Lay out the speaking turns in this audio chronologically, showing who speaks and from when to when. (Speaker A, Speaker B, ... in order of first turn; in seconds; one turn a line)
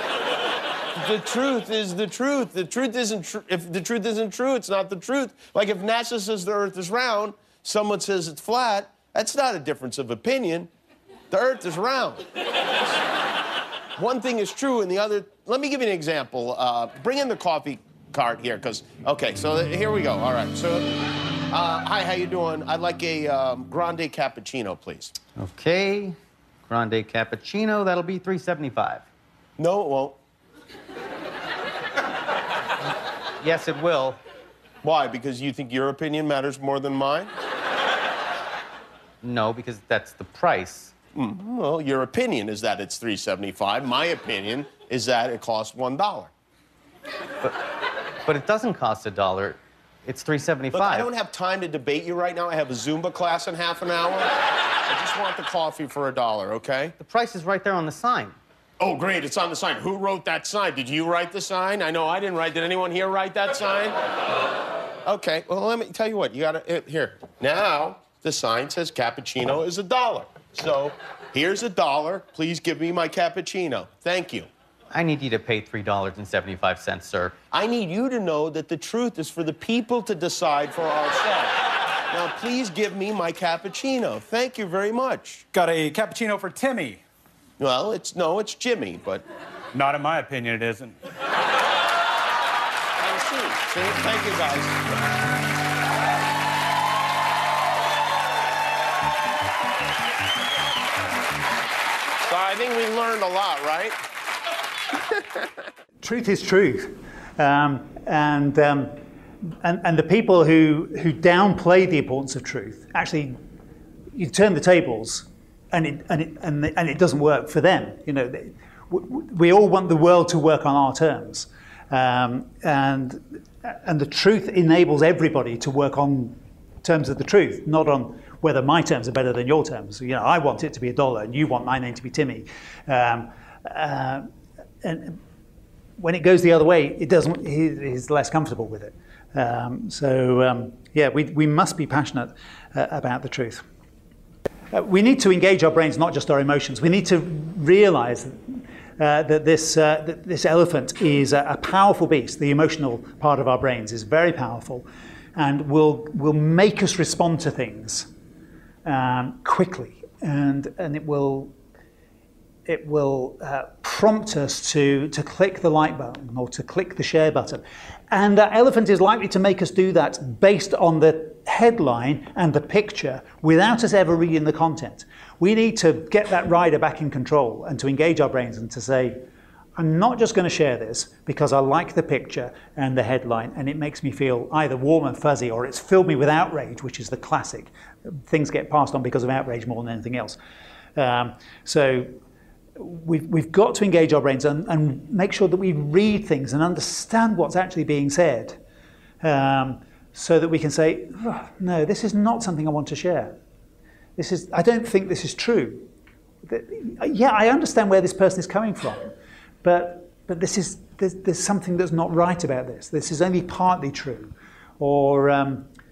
Speaker A: 0.9-10.7
Speaker A: 11.3-12.3
Speaker A: 13.9-25.1
Speaker B: 25.4-26.1
Speaker B: 26.7-29.1
Speaker A: 29.6-30.2
Speaker B: 33.4-34.2
Speaker A: 34.8-37.3
Speaker B: 39.2-40.9
Speaker A: 41.1-46.3
Speaker B: 47.4-47.7
Speaker B: 48.2-51.1
Speaker A: 50.7-56.9
Speaker B: 57.0-58.4
Speaker A: 58.8-64.0
Speaker A: 65.0-74.5
Speaker B: 74.9-77.3
Speaker A: 77.5-81.5
Speaker A: 82.1-85.4
Speaker C: 85.5-87.0
Speaker A: 87.6-89.2
Speaker C: 89.7-91.0
Speaker A: 93.0-94.8
Speaker A: 102.2-104.0
Speaker D: 106.0-109.0
Speaker D: 109.6-113.4
Speaker D: 114.1-134.3
Speaker D: 134.8-135.2
Speaker D: 136.0-143.6
Speaker D: 144.7-158.1
Speaker D: 158.8-161.5
Speaker D: 162.7-179.2
Speaker D: 179.8-190.4
Speaker D: 190.9-192.1
Speaker D: 192.8-198.6
Speaker D: 199.2-203.3
Speaker D: 204.2-205.9
Speaker D: 206.4-209.1
Speaker D: 209.6-215.7